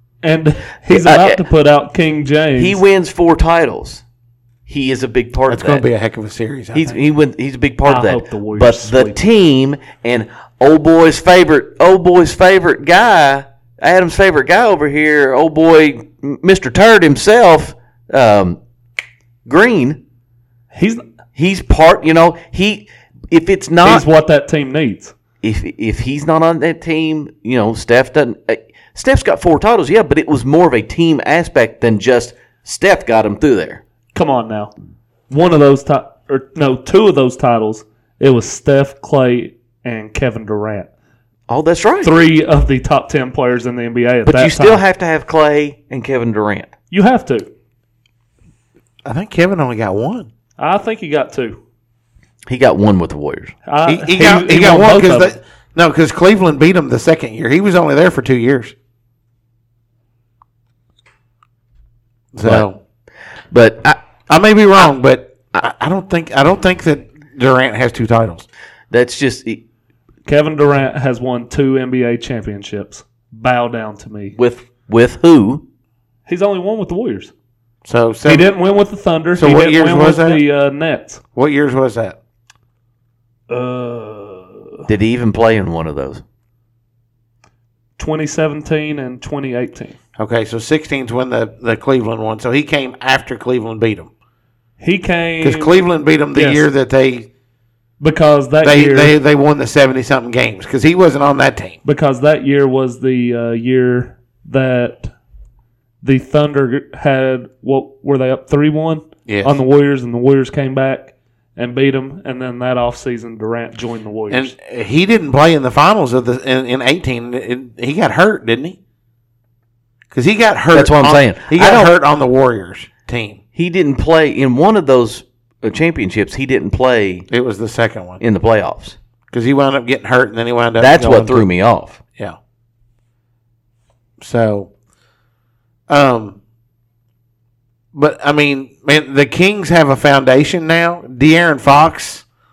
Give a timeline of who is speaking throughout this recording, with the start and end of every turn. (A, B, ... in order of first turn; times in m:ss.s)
0:00.2-0:02.8 A
0:00.9-0:01.4 B
0:02.6-0:04.0 B
0:04.7-0:05.8 B
0:05.5-0:07.0 C
0:06.7-0:18.6 B
0:07.8-0:09.2 A
0:19.5-0:20.0 B
0:20.7-0:21.0 A
0:21.4-0:24.1 B
0:23.8-0:25.1 A
0:25.4-0:33.8 B
0:34.2-0:34.7 A
0:35.3-0:40.9 A
0:41.5-0:42.2 B
0:42.0-0:44.8 A
0:44.3-0:46.7 B
0:46.9-0:47.5 A
0:49.0-0:50.3 C
0:50.6-0:51.6 A
0:52.5-0:53.6 B
0:53.7-0:55.4 A
0:53.8-0:58.8 C
1:02.3-1:02.8 C
1:03.5-1:04.0 B
1:04.3-1:08.5 C
1:08.9-1:09.6 B
1:10.3-1:14.4 A
1:14.4-1:15.6 B
1:16.3-1:17.3 A
1:17.8-1:18.5 C
1:18.2-1:21.2 A
1:19.4-1:20.4 C
1:21.4-1:22.2 C
1:23.5-1:24.8 A
1:24.9-1:26.2 B
1:28.0-1:30.0 A
1:30.2-1:34.1 C
1:34.8-1:35.8 A
1:35.4-1:37.3 C
1:36.3-1:36.7 A
1:38.0-1:39.2 A
1:38.6-1:41.8 C
1:41.8-1:45.1 A
1:46.0-1:54.5 A
1:49.3-1:49.6 C
1:54.3-1:58.8 C
2:00.1-2:03.4 C
2:00.7-2:01.9 B
2:03.6-2:07.3 B
2:07.3-2:08.2 C
2:08.2-2:09.0 B
2:09.3-2:11.5 C
2:10.8-2:12.0 B
2:14.2-2:14.7 C
2:15.9-2:16.4 C
2:17.9-2:22.2 C